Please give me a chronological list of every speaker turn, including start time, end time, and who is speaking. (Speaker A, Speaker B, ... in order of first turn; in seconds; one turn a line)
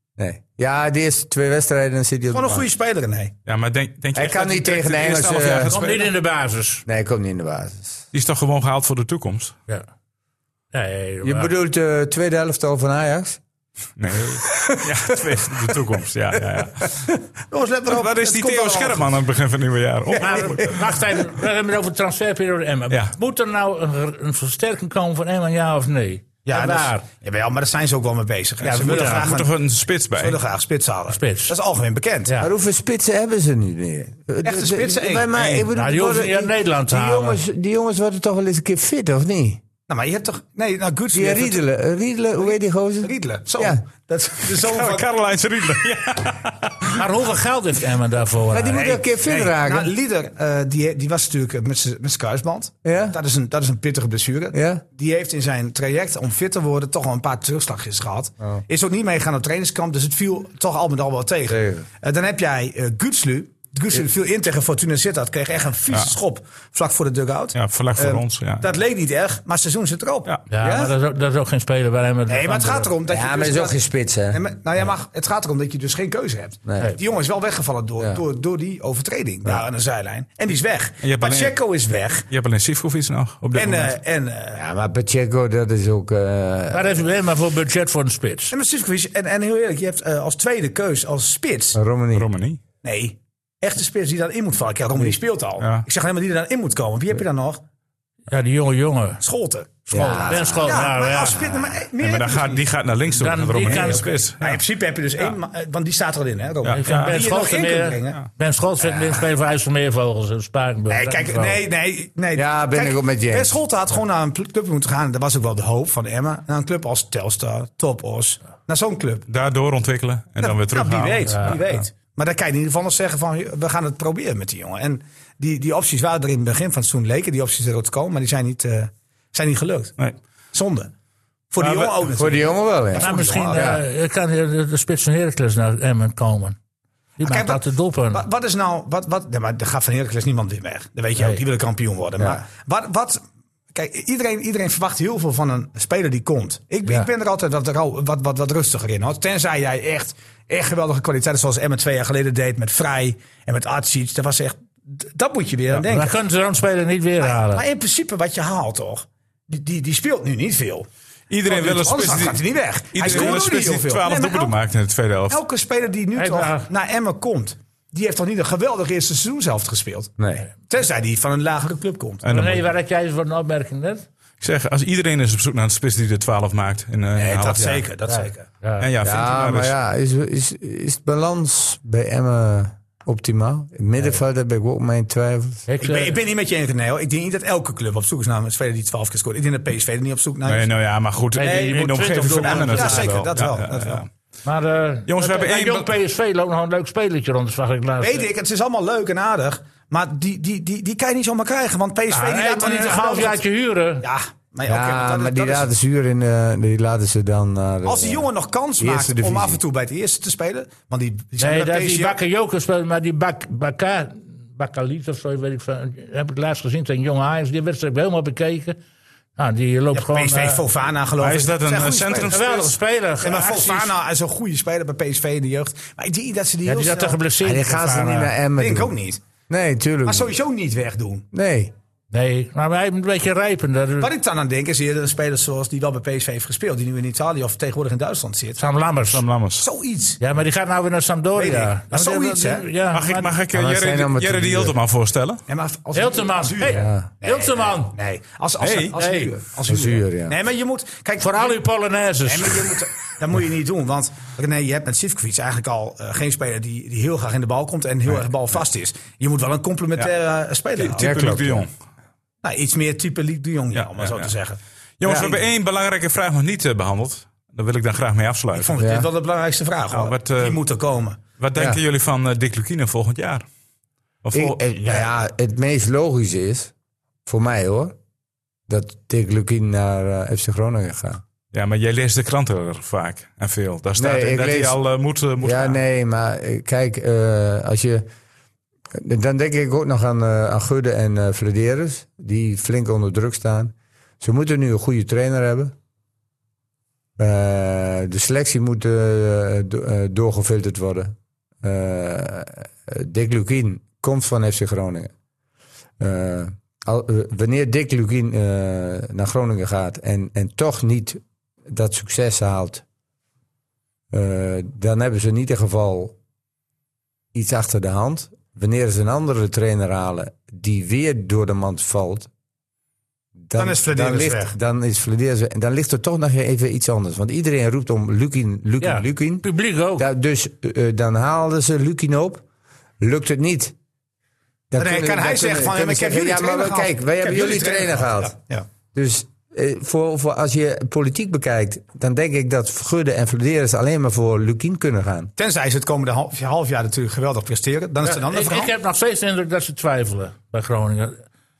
Speaker A: 0.2-2.7
Speaker B: 2.3-3.3
Speaker C: 3.5-6.1
Speaker A: 4.1-5.7
Speaker D: 5.7-6.8
Speaker A: 6.8-8.0
Speaker C: 8.1-9.5
Speaker D: 10.7-11.5
Speaker A: 11.2-13.4
Speaker C: 14.0-16.9
Speaker A: 14.5-15.7
Speaker B: 17.5-19.1
Speaker C: 17.9-20.8
Speaker D: 20.1-27.0
Speaker B: 26.4-29.5
Speaker D: 28.6-29.3
Speaker C: 28.8-30.4
Speaker B: 30.2-32.3
Speaker D: 31.1-31.5
Speaker A: 32.4-39.6
Speaker B: 34.4-35.7
Speaker D: 35.7-37.4
Speaker B: 39.9-41.6
Speaker A: 41.1-43.8
Speaker B: 42.5-45.1
Speaker C: 44.5-47.0
Speaker D: 46.9-48.9
Speaker A: 48.5-49.9
Speaker B: 48.7-70.3
Speaker A: 52.8-53.2
Speaker A: 54.5-54.8
Speaker A: 61.5-61.9
Speaker C: 67.5-68.7
Speaker D: 70.5-72.9
Speaker A: 70.6-70.9
Speaker B: 72.3-73.8
Speaker A: 73.1-74.4
Speaker B: 74.3-82.3
Speaker A: 76.7-76.9
Speaker C: 81.0-81.5
Speaker C: 82.3-83.9
Speaker B: 83.5-84.6
Speaker A: 84.5-87.0
Speaker D: 86.7-88.5
Speaker B: 88.5-91.8
Speaker A: 91.7-92.3
Speaker C: 92.1-92.6
Speaker B: 92.8-97.6
Speaker C: 95.6-95.8
Speaker D: 98.3-99.2
Speaker B: 99.2-102.6
Speaker D: 99.9-101.4
Speaker A: 99.9-101.5
Speaker C: 102.0-104.6
Speaker D: 103.1-104.2
Speaker B: 103.7-108.2
Speaker C: 106.6-107.2
Speaker D: 106.7-111.6
Speaker A: 108.8-109.2
Speaker B: 110.9-119.2
Speaker A: 112.3-113.5
Speaker C: 119.3-121.5
Speaker B: 120.4-130.0
Speaker D: 121.3-121.6
Speaker B: 130.5-130.9
Speaker B: 131.5-133.8
Speaker C: 131.6-132.0
Speaker A: 132.1-133.8
Speaker D: 133.0-136.6
Speaker D: 137.2-138.2
Speaker B: 137.2-143.2
Speaker D: 141.2-141.4
Speaker B: 143.7-156.2
Speaker D: 155.7-157.6
Speaker B: 157.2-160.9
Speaker C: 161.3-162.4
Speaker B: 161.4-164.6
Speaker C: 162.9-165.4
Speaker B: 165.3-170.1
Speaker D: 166.1-166.7
Speaker A: 170.2-170.5
Speaker B: 170.7-172.2
Speaker C: 172.2-172.7
Speaker D: 172.3-174.0
Speaker C: 174.4-177.8
Speaker B: 177.2-178.4
Speaker D: 178.1-178.9
Speaker C: 178.8-179.7
Speaker A: 179.0-185.6
Speaker D: 185.7-186.2
Speaker B: 185.8-190.7
Speaker C: 190.4-194.1
Speaker D: 191.3-193.2
Speaker B: 191.4-194.0
Speaker D: 194.4-198.3
Speaker C: 195.1-195.9
Speaker B: 198.0-203.4
Speaker D: 202.1-204.1
Speaker B: 204.0-205.7
Speaker A: 204.7-208.3
Speaker B: 207.8-212.2
Speaker A: 208.8-209.6
Speaker D: 211.4-218.8
Speaker D: 219.4-220.6
Speaker B: 219.9-227.2
Speaker C: 221.2-222.7
Speaker D: 222.3-223.9
Speaker D: 226.6-228.3
Speaker A: 227.4-228.9
Speaker B: 228.6-229.2
Speaker A: 229.5-230.3
Speaker B: 230.1-231.2
Speaker A: 231.3-231.7
Speaker D: 232.1-234.1
Speaker B: 234.0-238.7
Speaker D: 238.6-239.2
Speaker C: 239.1-239.7
Speaker B: 239.6-240.2
Speaker D: 240.2-243.3
Speaker B: 241.3-242.7
Speaker C: 242.9-245.4
Speaker A: 243.5-244.8
Speaker B: 245.5-251.6
Speaker D: 245.9-247.9
Speaker A: 246.7-247.1
Speaker C: 248.6-249.0
Speaker D: 248.9-249.3
Speaker A: 249.7-250.3
Speaker D: 251.2-252.8
Speaker B: 252.2-261.1
Speaker C: 260.8-261.7
Speaker A: 261.0-261.7
Speaker B: 262.4-264.6
Speaker C: 263.7-264.3
Speaker C: 265.0-268.8
Speaker A: 265.0-265.3
Speaker B: 268.5-271.2
Speaker A: 268.8-269.1
Speaker C: 269.9-270.6
Speaker C: 271.4-273.4
Speaker C: 274.2-274.6
Speaker A: 274.3-276.7
Speaker A: 277.2-277.9
Speaker A: 278.7-281.2
Speaker C: 281.5-285.8
Speaker A: 284.0-284.8
Speaker A: 285.4-288.1
Speaker A: 288.9-295.7
Speaker A: 297.2-305.1
Speaker A: 306.0-312.8
Speaker A: 314.1-316.1
Speaker A: 317.3-322.3
Speaker A: 323.5-332.4
Speaker B: 323.6-324.5
Speaker D: 328.8-330.1
Speaker A: 333.0-333.7
Speaker A: 334.7-338.3
Speaker B: 334.8-338.6
Speaker A: 338.9-345.3
Speaker B: 345.4-348.7
Speaker D: 348.0-351.2